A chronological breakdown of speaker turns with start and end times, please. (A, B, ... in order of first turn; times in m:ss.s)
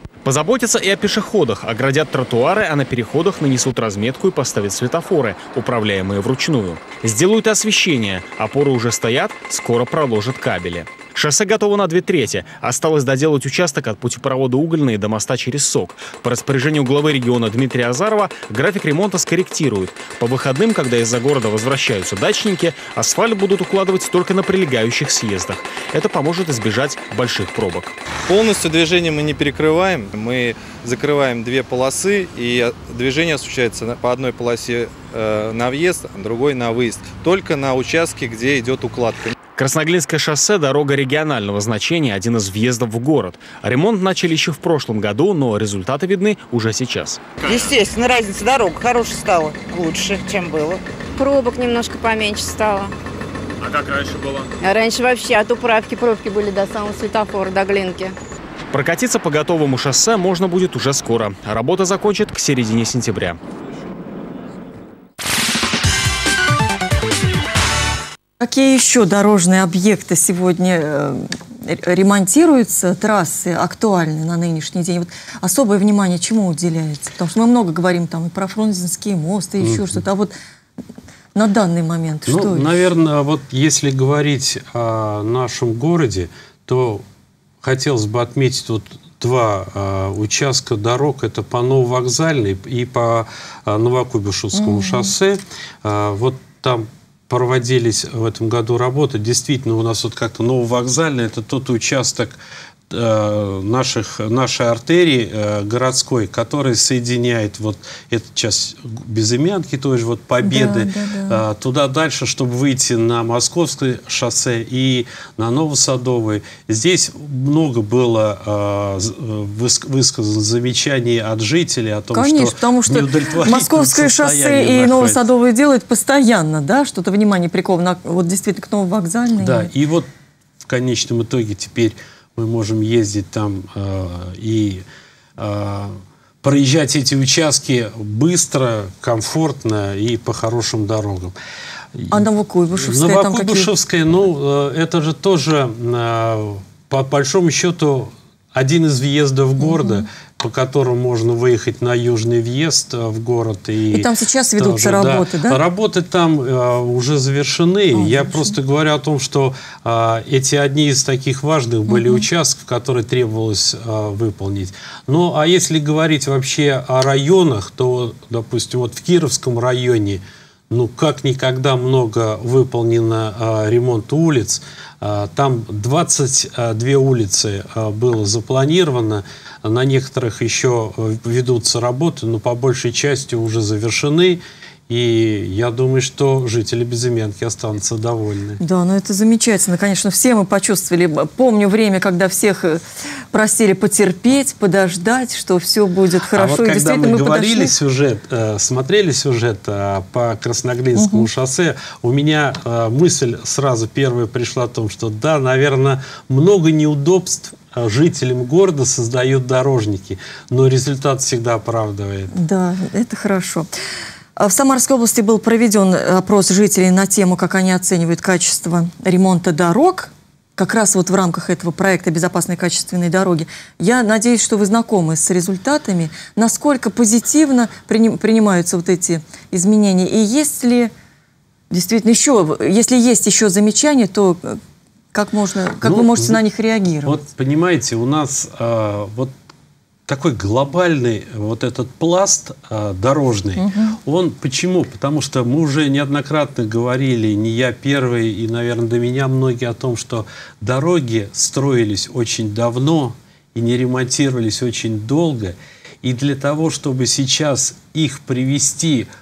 0:00.2-0:28.0 A
0:28.3-0:39.4 B
0:39.6-0:47.2 A
0:47.4-0:50.8 C
0:51.2-0:52.9 D
0:53.8-0:54.4 A
0:54.6-0:58.2 D
0:58.7-1:03.4 A
1:08.4-1:20.3 E
1:19.6-1:20.0 F
1:21.4-1:22.7 E
1:22.3-1:27.0 F
1:27.6-2:05.3 F
1:34.6-1:35.1 E
1:50.4-1:51.4 E
2:02.1-2:09.7 E
2:09.4-2:10.1 F
2:10.6-2:14.8 F
2:15.4-2:21.4 F
2:21.9-2:22.2 F
2:22.1-2:23.7 E
2:22.8-3:08.6 F
2:29.7-2:30.0 E
2:33.9-2:35.6 E
2:37.9-2:38.6 E
2:41.9-2:42.2 E
3:08.6-3:17.7 E
3:16.3-3:32.3 F
3:21.0-3:21.3 E
3:32.3-3:33.7 E
3:34.4-3:50.9 E
3:51.7-3:54.6 E
3:55.1-3:57.2 E
3:55.8-3:56.4 F
3:57.0-3:59.3 F
4:00.1-4:19.1 F
4:03.6-4:04.0 E